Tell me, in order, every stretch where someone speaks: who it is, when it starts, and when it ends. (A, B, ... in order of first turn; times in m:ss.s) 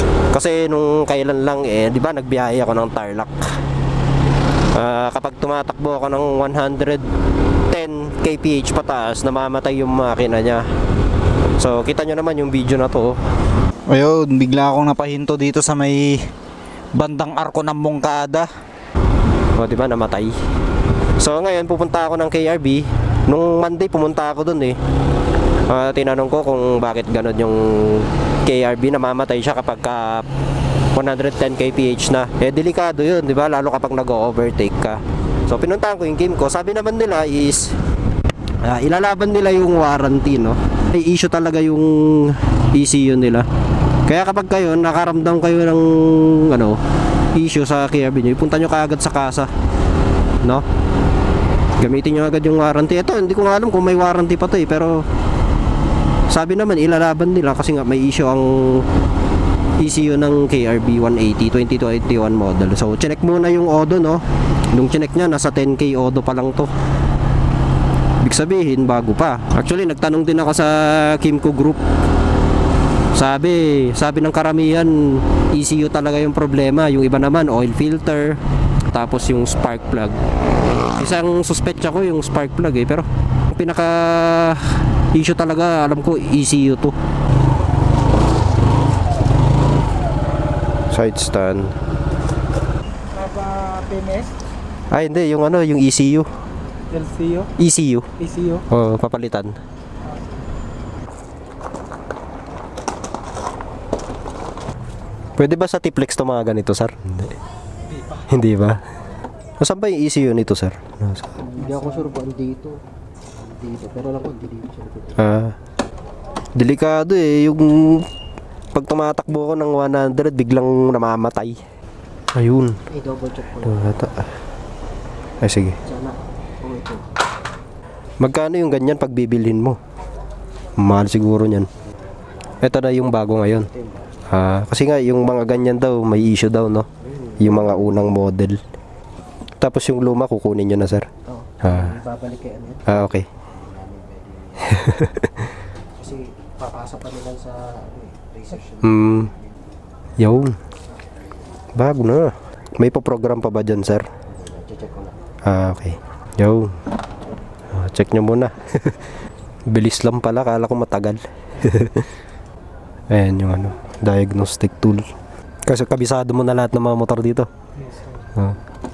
0:00.3-0:03.4 A
0:04.7-0:07.1 A
0:07.7-0:10.7 A
0:11.6-0:13.2 A
0:13.9-0:16.2 B
0:17.0-0:18.5 B
0:19.6-0:20.4 A
0:21.2-0:24.8 A
0:25.7-0:30.3 A
0:30.9-0:37.8 A
0:38.6-0:43.5 A
0:44.1-0:46.8 A
0:47.3-0:49.5 A
0:51.8-0:55.1 A
0:56.3-0:58.9 A
0:59.8-1:06.7 A
1:08.2-1:11.8 A
1:13.1-1:18.4 A
1:18.9-1:20.2 A
1:21.0-1:27.0 A
1:30.9-1:31.7 A
1:33.1-1:34.3 C
1:34.9-1:36.3 A
1:36.9-1:37.5 C
1:37.6-1:38.1 A
1:38.2-1:38.6 C
1:38.7-1:39.6 A
1:45.4-1:47.4 A
1:48.2-1:48.8 A
1:49.6-1:51.4 A
1:51.4-1:52.8 D
1:53.4-1:55.2 D
1:55.2-1:55.5 A
1:56.6-1:58.1 A
1:58.7-2:01.6 A
2:02.4-2:02.8 A
2:02.9-2:04.1 D
2:03.6-2:04.2 A
2:05.4-2:05.8 A
2:05.8-2:07.1 D
2:08.2-2:09.8 A
2:10.8-2:11.7 A
2:12.6-2:13.7 A
2:13.6-2:14.2 D
2:14.3-2:16.9 A
2:17.0-2:18.0 D
2:17.4-2:18.6 A
2:19.6-2:21.1 A
2:21.3-2:25.0 D
2:21.6-2:22.0 A
2:22.9-2:23.3 A
2:24.7-2:25.5 A
2:26.0-2:29.5 D
2:28.8-2:29.3 A
2:30.2-2:30.6 A
2:31.8-2:34.1 A
2:34.3-2:35.2 D
2:35.5-2:36.8 A
2:37.7-2:39.0 A
2:39.7-2:42.1 A
2:43.1-2:45.1 A
2:45.7-2:47.5 A